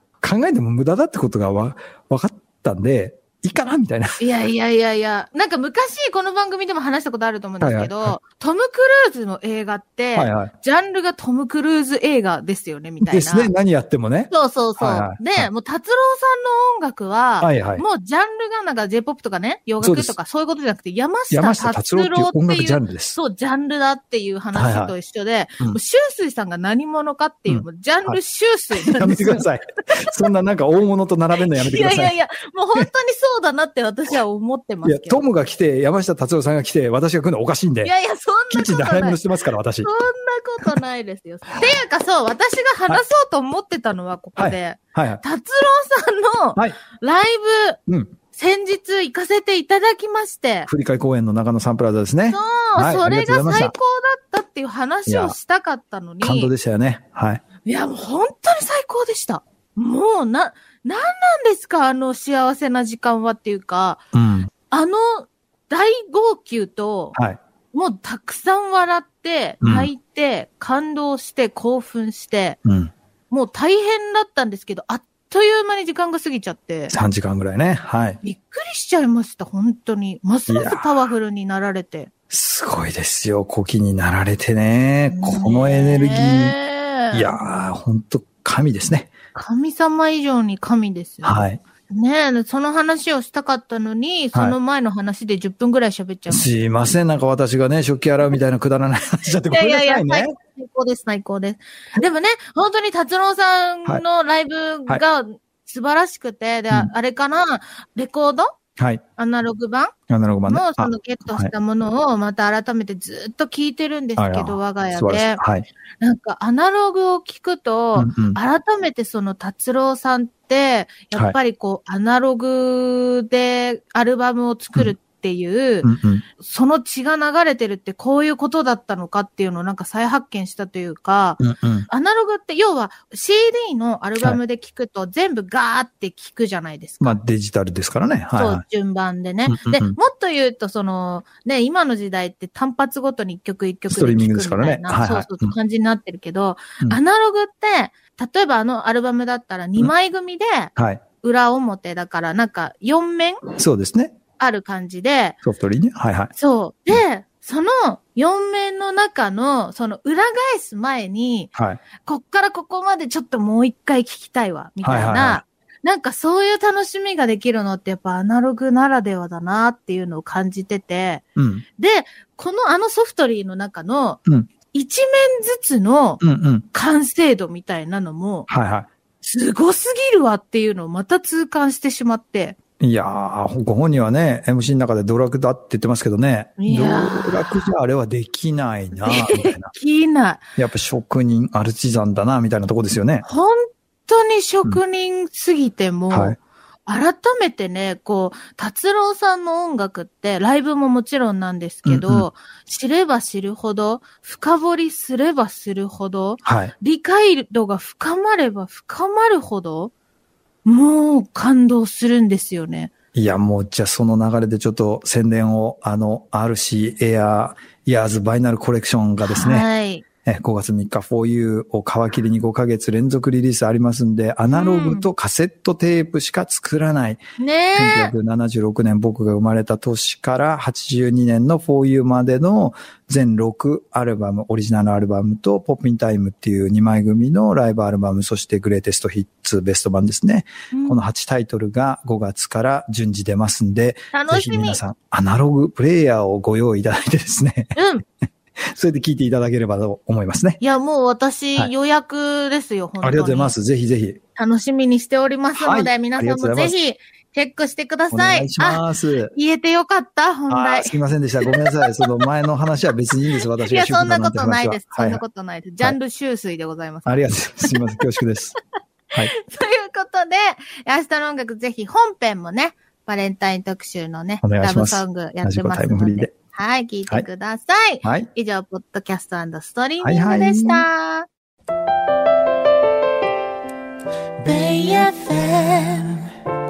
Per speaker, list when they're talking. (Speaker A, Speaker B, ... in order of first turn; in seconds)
Speaker A: 0.2-4.2, 7.6-8.2, 10.2-10.5, 13.0-15.5, 17.4-17.8, 19.8-20.1, 21.3-23.2, 24.5-24.9, 27.5-28.2, 28.7-32.1, 34.8-37.9, 38.5-39.9, 44.4-45.2, 47.9-48.1, 50.7-53.7, 55.1-55.4, 56.2-57.4, 64.1-64.5, 67.2-67.4, 69.6-69.9, 72.7-72.9, 76.9-78.2, 80.5-80.9, 82.3-86.6, 87.1-89.1, 91.2-91.6, 96.3-100.3, 108.8-109.0, 110.1-111.5, 114.2-115.7, 118.0-118.4, 125.8-126.2, 131.4-131.9, 137.0-138.6, 139.5-140.0, 143.9-145.6, 150.8-151.0, 153.5-154.2, 155.4-156.3, 161.6-161.8, 164.8-165.4, 171.4-171.7, 176.2-176.7, 178.5-178.9, 182.8-189.7, 190.6-193.2, 196.1-196.4, 201.8-202.3, 206.4-206.7, 213.1-219.7, 220.2-227.2, 227.7-247.8, 248.7-250.6, 253.0-254.2, 255.6-256.8, 258.1-259.3, 260.5-265.2, 267.1-268.6, 274.4-276.3, 278.0-278.3, 280.0-280.9
Speaker B: 4.2-13.5, 14.3-29.5, 31.4-35.2, 37.8-39.2, 39.8-47.8, 48.3-50.7, 52.3-56.5, 57.6-64.0, 64.7-67.2, 67.7-72.6, 73.3-76.9, 78.2-82.1, 85.1-87.3, 89.3-91.4, 91.9-96.5, 99.5-108.5, 109.2-110.0, 110.5-115.4, 116.0-137.2, 138.3-153.4, 154.4-155.4, 156.4-161.5, 162.0-171.2, 171.8-174.2, 174.7-176.2, 176.7-178.5, 179.2-182.6, 186.6-187.7, 189.0-190.4, 193.2-209.9, 210.7-212.9, 219.2-220.1, 224.5-225.1, 227.4-228.1, 240.7-241.1, 244.1-244.8, 247.8-248.0, 250.6-253.6, 254.4-262.0, 263.6-267.9, 269.3-281.3, 284.4-286.2